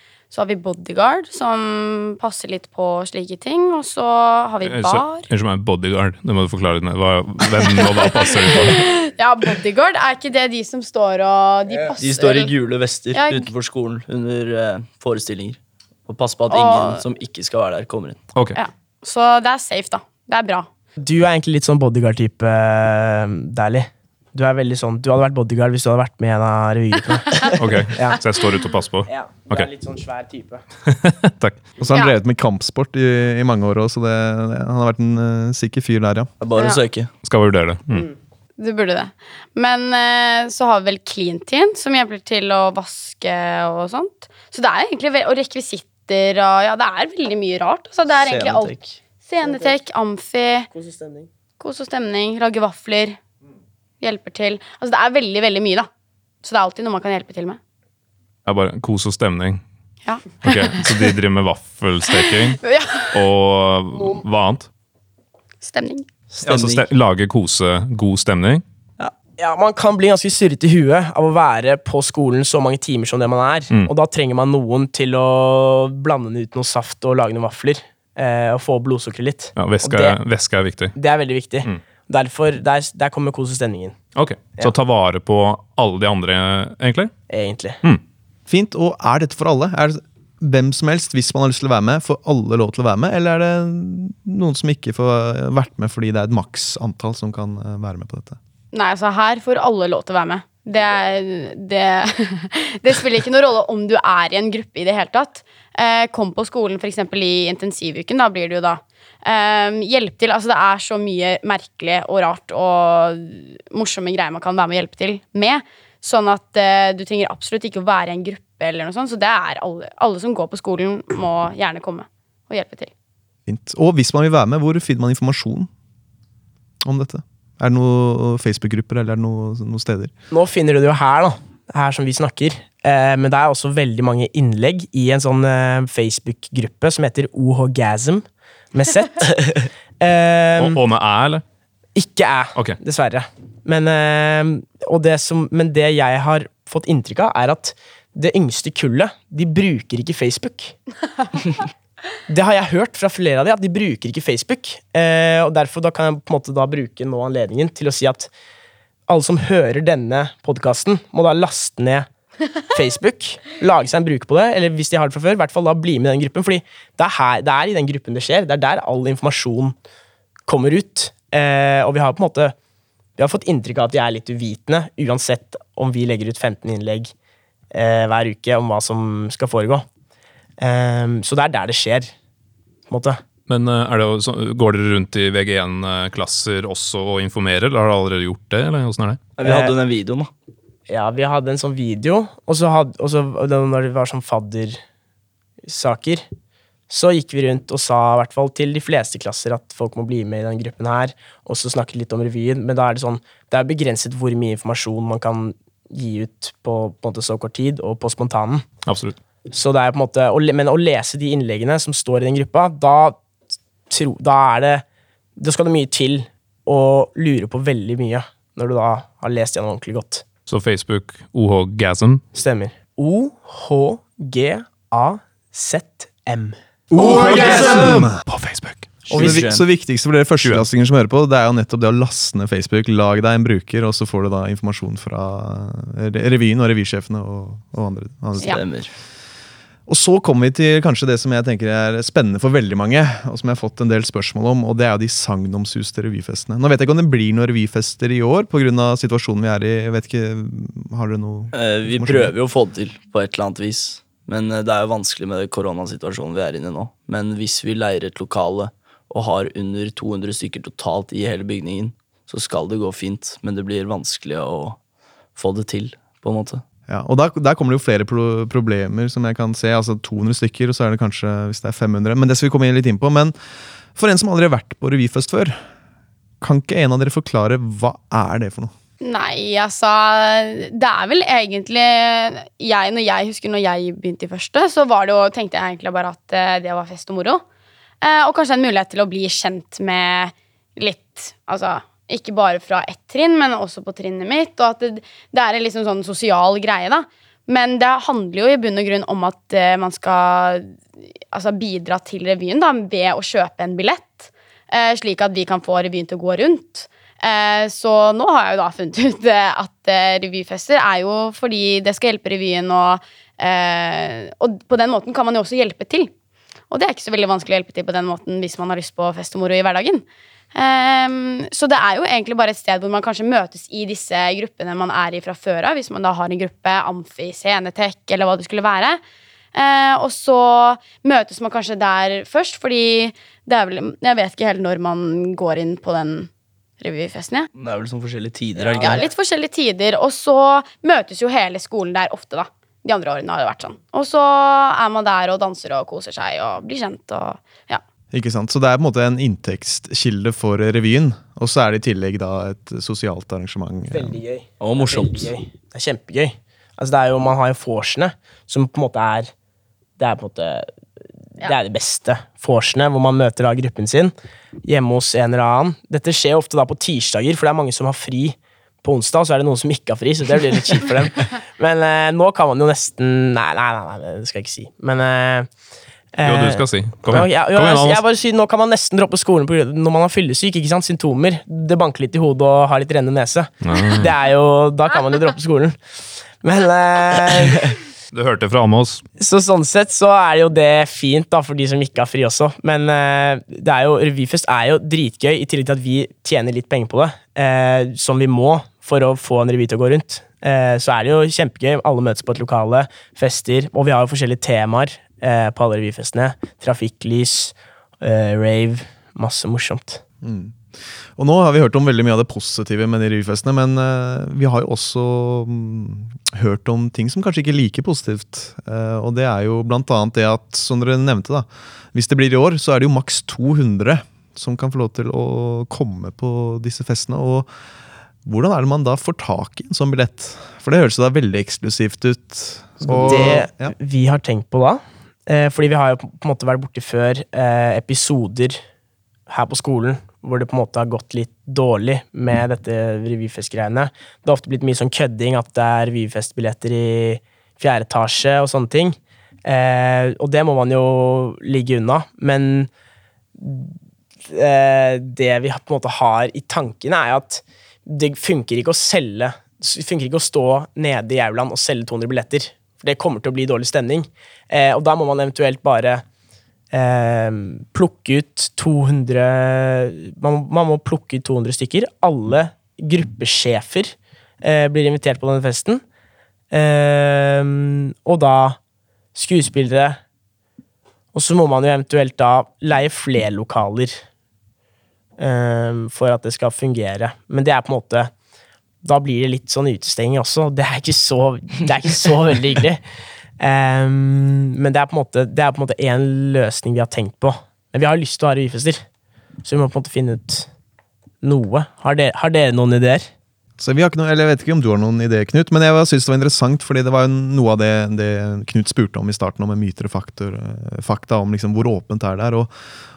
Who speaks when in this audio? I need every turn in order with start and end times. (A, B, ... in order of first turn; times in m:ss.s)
0:00.3-0:05.3 A
0:04.6-0:08.8 B
0:08.5-0:12.5 A
0:12.0-0:18.2 C
0:13.1-0:13.5 A
0:16.5-0:17.0 A
0:18.5-0:20.7 A
0:21.0-0:28.2 D
0:27.6-0:29.7 B
0:29.1-0:30.6 D
0:30.8-0:31.6 B
0:31.8-0:36.3 E
0:36.4-0:37.1 C
0:36.5-0:36.8 A
0:37.2-0:38.1 B
0:38.6-0:50.7 A
0:48.2-0:49.0 C
0:49.4-0:49.7 D
0:50.7-0:51.3 D
0:51.6-0:53.2 A
0:54.0-0:55.9 A
0:56.4-0:57.6 A
0:58.4-0:59.6 B
1:00.0-1:01.0 A
1:00.4-1:04.7 B
1:02.2-1:03.1 A
1:05.6-1:06.1 A
1:06.3-1:06.8 C
1:06.4-1:08.6 B
1:09.4-1:20.2 D
1:19.6-1:20.9 B
1:20.9-1:24.0 D
1:24.2-1:27.1 B
1:27.3-1:27.8 D
1:28.5-1:38.4 E
1:38.7-2:02.9 A
2:03.5-2:05.7 E
2:06.8-2:10.1 E
2:10.3-2:20.8 D
2:20.6-2:21.4 B
2:21.9-2:30.8 D
2:32.3-2:38.3 D
2:39.1-2:42.1 D
2:42.7-2:49.8 D
2:50.5-2:52.5 D
2:53.2-2:57.1 D
2:57.7-2:59.8 D
3:00.6-3:02.1 D
3:02.9-3:03.2 D
3:03.5-3:09.2 B
3:09.4-3:10.3 C
3:09.4-3:09.8 D
3:10.9-3:14.8 D
3:15.6-3:16.2 D
3:16.9-3:28.7 D
3:28.8-3:29.2 B
3:29.5-3:33.2 D
3:33.9-3:34.8 D
3:35.4-3:40.2 D
3:40.5-3:42.2 B
3:42.3-3:48.1 D
3:46.9-3:48.1 E
3:47.0-3:49.0 B
3:49.1-3:49.6 C
3:49.1-3:58.6 E
3:49.1-3:49.4 D
3:58.4-3:58.9 C
3:59.9-4:12.3 E
4:11.5-4:24.8 C
4:25.4-4:26.6 C
4:26.9-4:33.3 E
4:33.9-4:35.6 E
4:36.4-4:38.7 E
4:39.0-4:47.4 A
4:48.0-5:00.7 A
5:01.3-5:16.1 A
5:16.7-5:29.0 A
5:29.5-5:36.3 A
5:36.8-5:37.5 A
5:37.5-5:39.0 C
5:38.6-5:39.0 D
5:38.7-5:47.8 A
5:48.1-5:54.2 E
5:53.9-5:59.3 D
5:54.6-5:55.3 C
6:00.0-6:00.7 D
6:01.4-6:04.1 D
6:04.6-6:15.5 D
6:16.1-6:27.8 D
6:16.2-6:18.0 B
6:23.6-6:24.1 B
6:28.1-6:29.0 B
6:29.2-6:50.0 D
6:50.2-7:07.5 E
7:08.2-7:13.7 E
7:12.8-7:18.6 D
7:19.3-7:32.7 D
7:33.4-7:33.7 D
7:34.3-7:46.0 D
7:46.7-7:55.8 D
7:56.5-7:58.6 D
7:59.1-8:00.0 D
8:01.1-8:04.0 D
8:05.2-8:08.1 D
8:08.8-8:12.8 D
8:13.4-8:18.8 D
8:19.4-8:20.5 D
8:21.2-8:23.1 D
8:23.6-8:32.5 E